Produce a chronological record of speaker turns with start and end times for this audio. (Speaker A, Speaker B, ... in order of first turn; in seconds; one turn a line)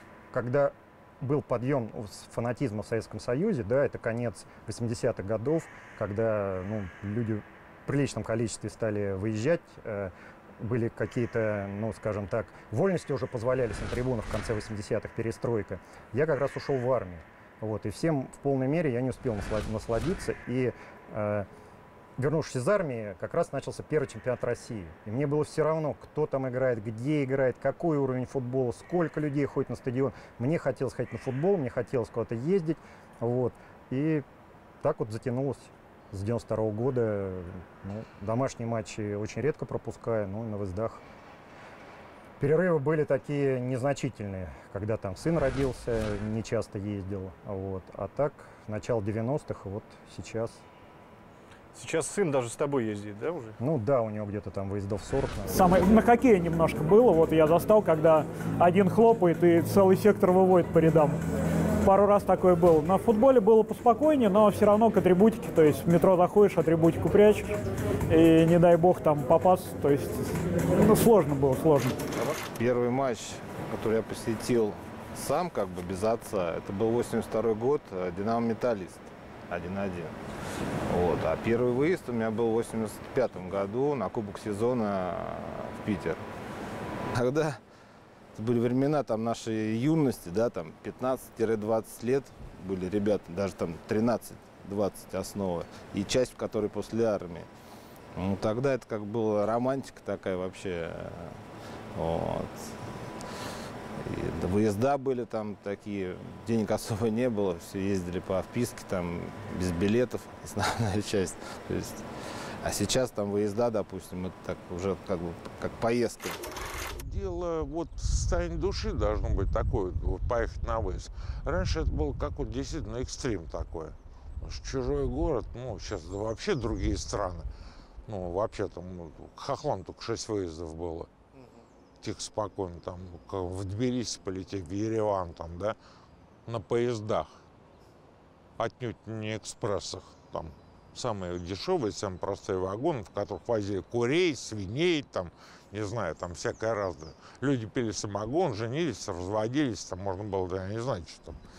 Speaker A: 0.3-21.5
Speaker A: 22.2-34.2
Speaker A: 34.8-41.0
Speaker A: 42.4-50.6
Speaker B: 51.8-53.6
Speaker A: 53.6-55.8
Speaker C: 55.5-61.2
Speaker C: 61.8-67.6
Speaker C: 68.1-70.2
Speaker C: 70.8-72.0
Speaker D: 72.2-80.2
Speaker D: 80.9-86.2
Speaker D: 87.1-87.6
Speaker D: 88.3-97.5
Speaker D: 98.2-101.4
Speaker D: 102.0-102.8
Speaker D: 104.0-112.0
Speaker D: 112.6-116.4
Speaker E: 116.9-127.5
Speaker E: 128.1-131.1
Speaker B: 131.3-131.6
Speaker E: 132.0-135.8
Speaker E: 136.5-137.4
Speaker E: 138.6-151.4